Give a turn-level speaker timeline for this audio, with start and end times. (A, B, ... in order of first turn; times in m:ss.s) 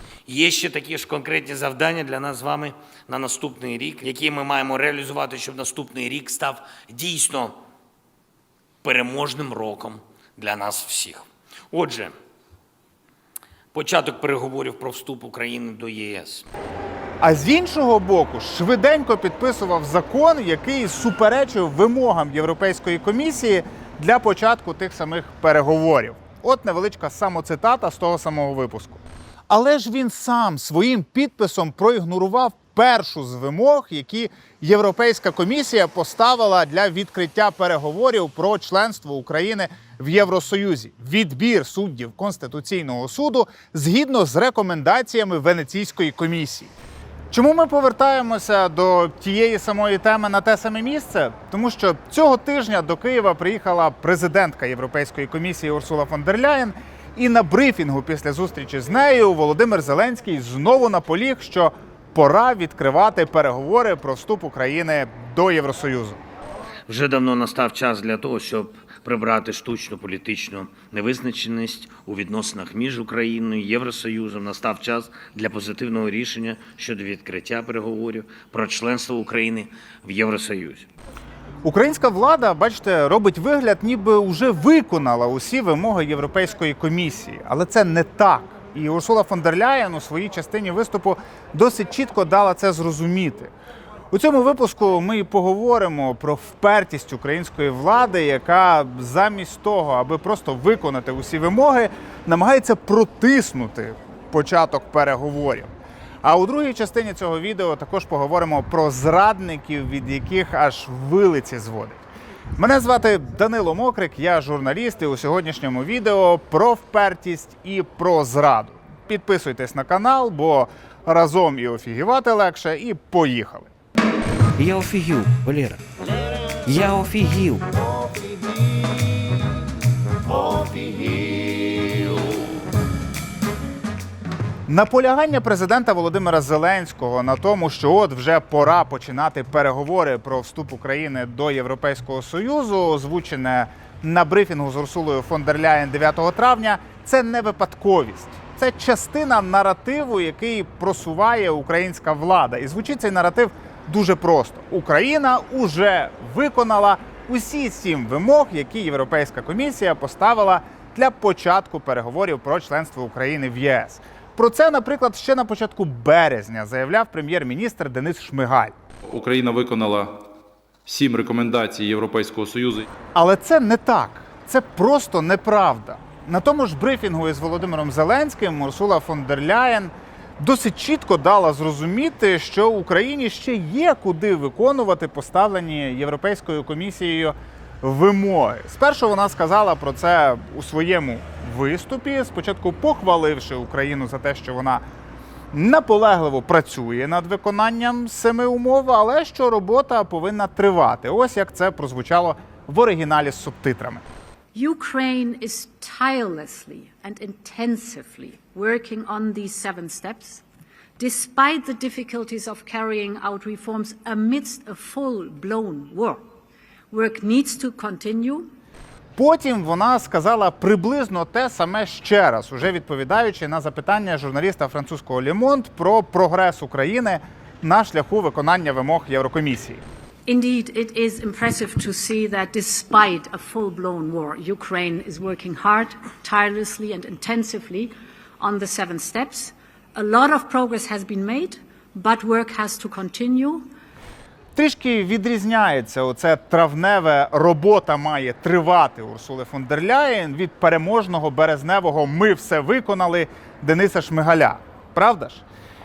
0:00.3-0:07.6 A
0:08.8-0:12.1 A
0:13.7-0:16.4 A
0:17.2-0:46.7 B
0:47.3-1:06.2 B
1:06.9-1:20.9 A
1:21.6-1:33.5 B
1:34.1-1:45.7 B
1:46.2-1:52.0 B
1:52.6-2:03.7 B
2:04.6-2:05.8 C
2:06.7-2:07.6 C
2:08.0-2:09.0 B
2:10.4-2:12.0 B
2:14.7-2:48.7 B
2:49.1-2:50.2 D
2:50.9-2:52.9 D
2:53.2-3:14.8 B
3:15.5-3:24.0 B
3:24.5-3:30.4 E
3:31.0-3:36.2 E
3:36.9-3:38.5 E
3:39.2-3:49.8 B
3:50.3-4:03.7 E
4:04.6-4:15.4 B